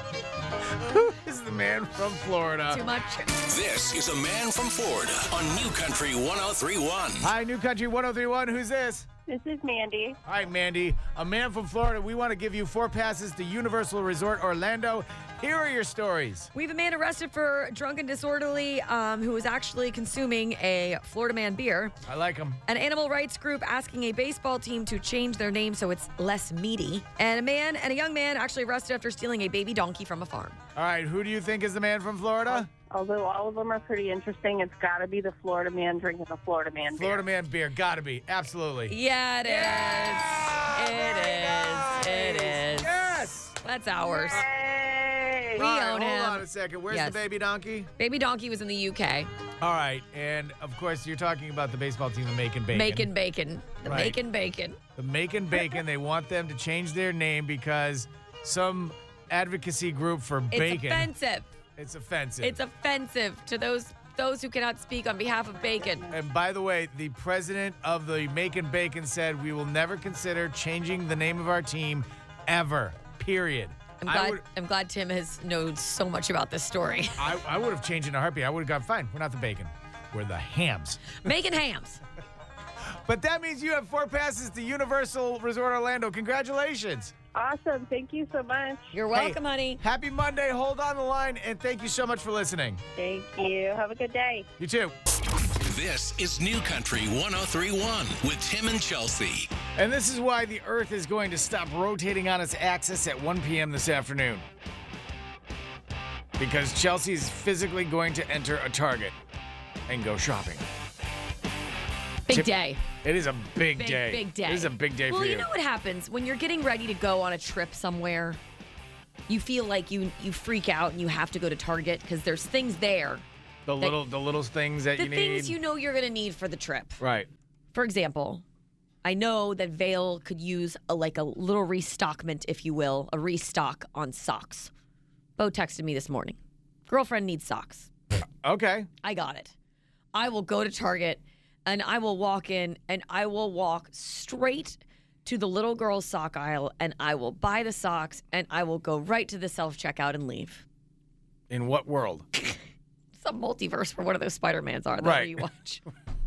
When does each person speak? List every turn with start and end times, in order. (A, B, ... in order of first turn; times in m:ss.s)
0:00.7-0:02.8 A
0:02.7-0:03.4 B
0:03.4-0:07.3 C
0:07.2-0:09.1 A
0:09.3-0:10.2 D
0:10.2-0:16.5 A
0:16.5-0:22.0 B
0:22.0-0:22.6 A
0:22.6-0:30.6 B
0:30.7-0:32.7 A
0:32.6-0:37.2 D
0:36.9-0:43.6 A
0:38.9-0:42.9 B
0:43.6-0:44.4 B
0:44.1-0:45.6 D
0:45.6-0:47.9 A
0:45.6-0:47.2 B
0:48.0-0:49.3 B
0:49.6-0:53.1 A
0:52.7-0:54.8 B
0:53.8-0:54.2 A
0:55.0-1:01.1 A
1:00.5-1:01.5 B
1:01.8-1:02.6 A
1:02.4-1:06.1 B
1:06.1-1:14.4 A
1:14.0-1:17.3 B
1:17.2-1:21.2 A
1:21.1-1:22.0 B
1:23.0-1:27.1 A
1:27.3-1:28.9 D
1:28.9-1:29.8 B
1:29.1-1:32.8 A
1:33.0-1:34.4 D
1:34.6-1:34.9 A
1:35.6-1:39.5 C
1:39.8-1:44.4 A
1:46.4-1:49.1 A
1:49.9-1:50.6 A
1:52.3-1:52.8 B
1:53.0-1:55.5 A
1:53.8-1:58.4 B
1:59.3-2:03.2 B
2:03.6-2:05.6 A
2:05.0-2:07.0 B
2:07.0-2:07.3 A
2:07.7-2:08.4 B
2:09.0-2:14.7 B
2:15.4-2:17.9 B
2:18.4-2:18.9 A
2:19.0-2:19.5 B
2:20.1-2:30.6 B
2:31.5-2:32.3 A
2:33.2-2:35.8 B
2:35.0-2:35.4 A